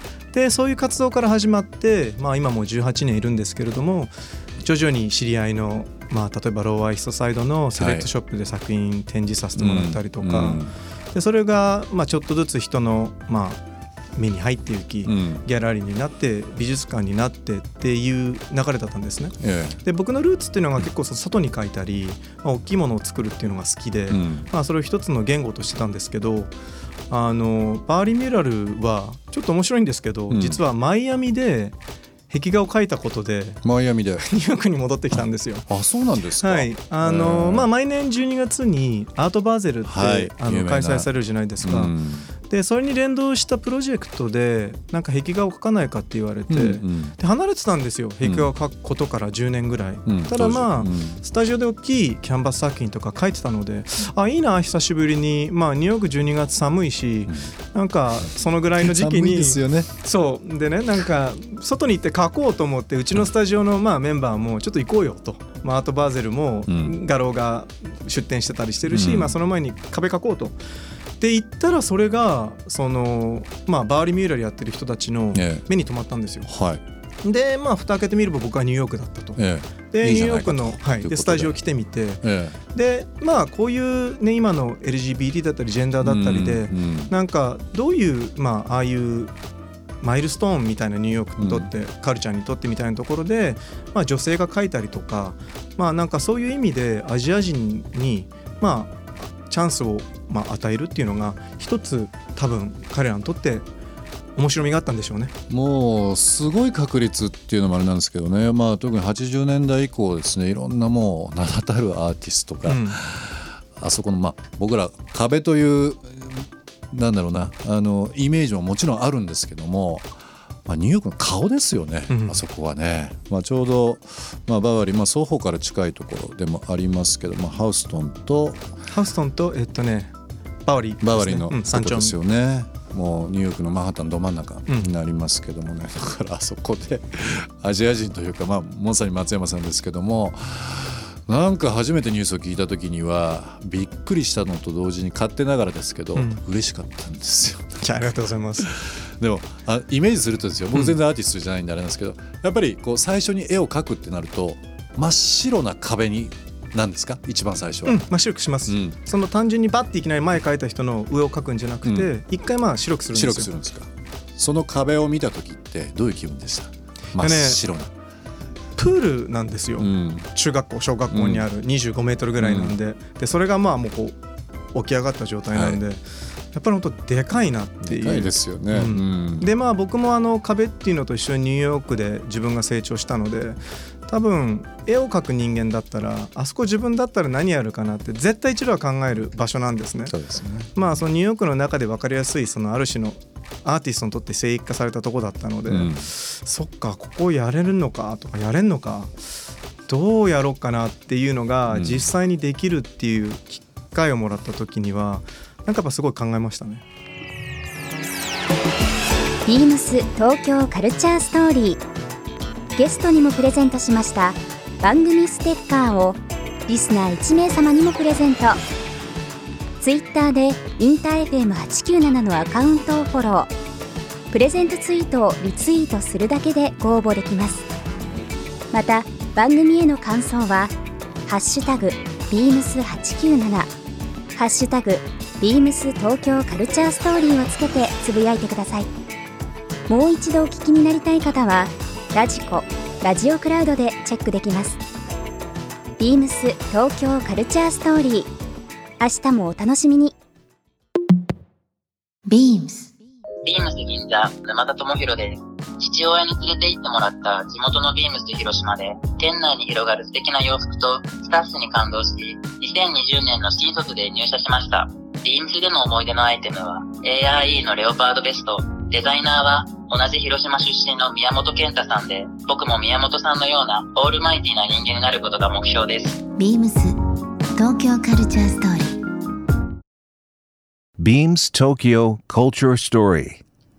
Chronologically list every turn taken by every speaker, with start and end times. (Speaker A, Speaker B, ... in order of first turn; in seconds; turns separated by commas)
Speaker A: 0.3-10.6, Speaker B: 7.8-8.1, Speaker B: 9.6-10.7, Speaker A: 11.1-13.6, Speaker A: 14.2-26.5, Speaker B: 15.0-15.4, Speaker B: 19.4-19.8, Speaker B: 24.1-24.5, Speaker A: 27.1-31.8, Speaker B: 30.3-30.6, Speaker A: 32.3-33.6, Speaker B: 33.6-34.2, Speaker A: 34.2-35.6, Speaker B: 35.7-37.7, Speaker A: 36.4-41.9, Speaker B: 39.8-42.3, Speaker A: 42.4-70.6, Speaker B: 46.5-47.1, Speaker B: 48.2-48.5, Speaker B: 50.0-51.2, Speaker B: 58.8-59.9, Speaker B: 66.7-67.0, Speaker B: 68.9-69.3, Speaker A: 71.2-76.5, Speaker B: 75.3-75.6, Speaker B: 76.5-76.8, Speaker A: 77.2-79.4, Speaker B: 79.3-81.6, Speaker A: 79.9-82.2, Speaker B: 82.2-82.6, Speaker A: 82.7-89.3, Speaker B: 86.0-87.1, Speaker A: 90.0-103.7, Speaker B: 91.4-91.7, Speaker A: 104.3-105.3, Speaker B: 105.5-120.1, Speaker A: 112.6-113.0, Speaker B: 120.7-128.7, Speaker A: 122.1-122.4, Speaker A: 128.9-130.1, Speaker A: 130.7-132.1, Speaker B: 131.0-147.8, Speaker A: 134.7-134.9, Speaker A: 146.1-146.4, Speaker A: 147.8-148.6, Speaker B: 148.6-158.0, Speaker A: 157.8-163.5, Speaker B: 158.7-159.0, Speaker B: 161.8-162.1, Speaker B: 163.1-167.9, Speaker A: 167.2-167.6, Speaker A: 168.8-174.2, Speaker B: 169.8-170.3, Speaker B: 171.1-171.4, Speaker B: 172.4-172.8, Speaker A: 174.7-176.0, Speaker B: 175.5-175.8, Speaker A: 176.5-190.1, Speaker B: 177.8-179.5, Speaker B: 190.1-190.7, Speaker A: 190.7-199.2, Speaker B: 195.7-196.1, Speaker A: 199.9-206.8, Speaker B: 201.7-202.1, Speaker C: 209.4-211.8, Speaker C: 212.7-218.6, Speaker C: 219.8-223.5, Speaker C: 224.3-227.7, Speaker C: 228.7-230.7, Speaker C: 231.3-233.7, Speaker C: 234.3-238.9, Speaker C: 239.9-244.8, Speaker C: 246.0-248.3, Speaker C: 249.0-250.1, Speaker D: 252.3-252.9, Speaker E: 253.4-276.2, Speaker D: 276.4-276.9, Speaker D: 277.5-279.0, Speaker F: 281.0-283.4